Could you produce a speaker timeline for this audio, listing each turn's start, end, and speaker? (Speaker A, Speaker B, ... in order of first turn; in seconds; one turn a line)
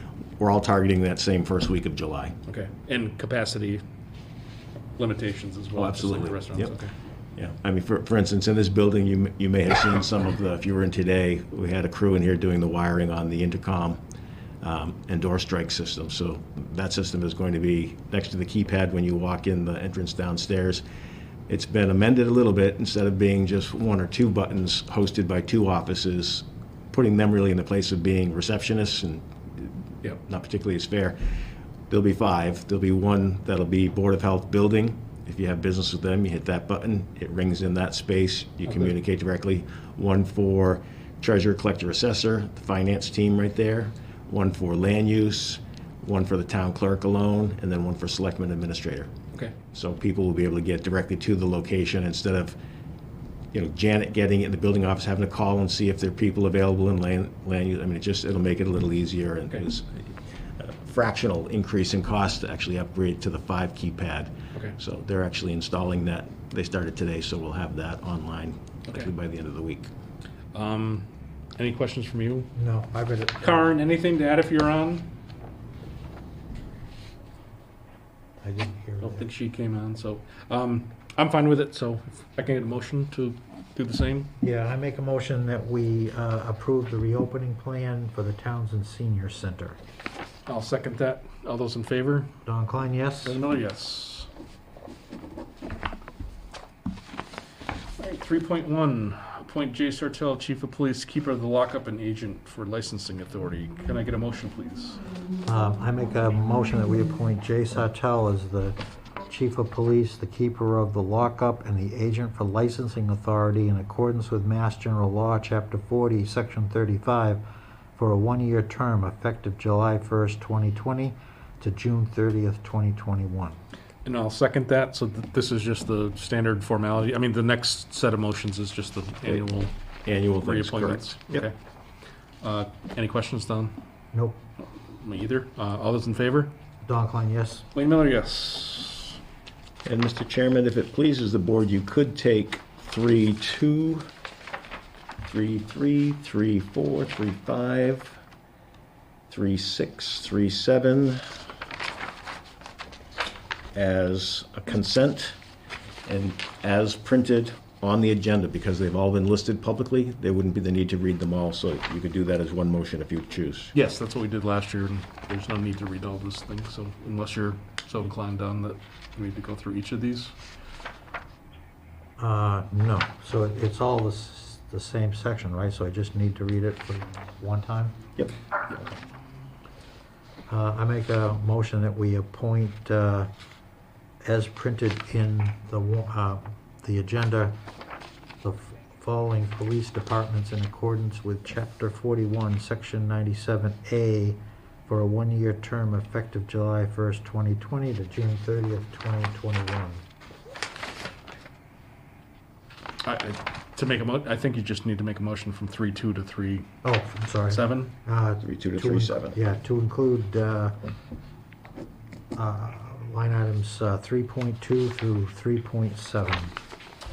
Speaker A: 0.4-2.4
Speaker B: 2.5-3.8
Speaker B: 5.0-6.9
Speaker A: 5.8-6.7
Speaker A: 7.3-14.0
Speaker A: 14.6-20.8
Speaker A: 21.5-29.7
Speaker A: 30.2-31.2
Speaker A: 31.9-49.1
Speaker A: 49.7-52.6
Speaker A: 53.5-60.0
Speaker A: 60.6-69.9
Speaker B: 70.5-72.5
Speaker C: 72.5-73.7
Speaker B: 73.4-75.1
Speaker C: 78.4-79.3
Speaker B: 79.0-84.3
Speaker C: 84.4-89.8
Speaker B: 90.5-92.3
Speaker C: 92.5-93.4
Speaker B: 93.2-94.3
Speaker B: 98.0-105.0
Speaker C: 105.4-117.4
Speaker C: 117.9-123.6
Speaker B: 124.0-129.7
Speaker A: 130.1-131.4
Speaker B: 130.4-131.5
Speaker B: 132.4-133.8
Speaker C: 134.1-134.4
Speaker B: 134.6-136.5
Speaker C: 136.8-137.7
Speaker B: 137.7-139.2
Speaker A: 139.8-144.1
Speaker A: 145.2-148.2
Speaker A: 149.3-151.2
Speaker A: 153.7-155.4
Speaker A: 156.1-163.7
Speaker B: 163.7-170.3
Speaker C: 172.2-177.9
Speaker C: 180.5-183.3
Speaker C: 184.2-187.6
Speaker C: 188.4-200.0
Speaker B: 203.0-206.7
Speaker C: 206.8-210.8
Speaker B: 207.5-207.9
Speaker A: 208.4-209.4
Speaker C: 212.3-216.5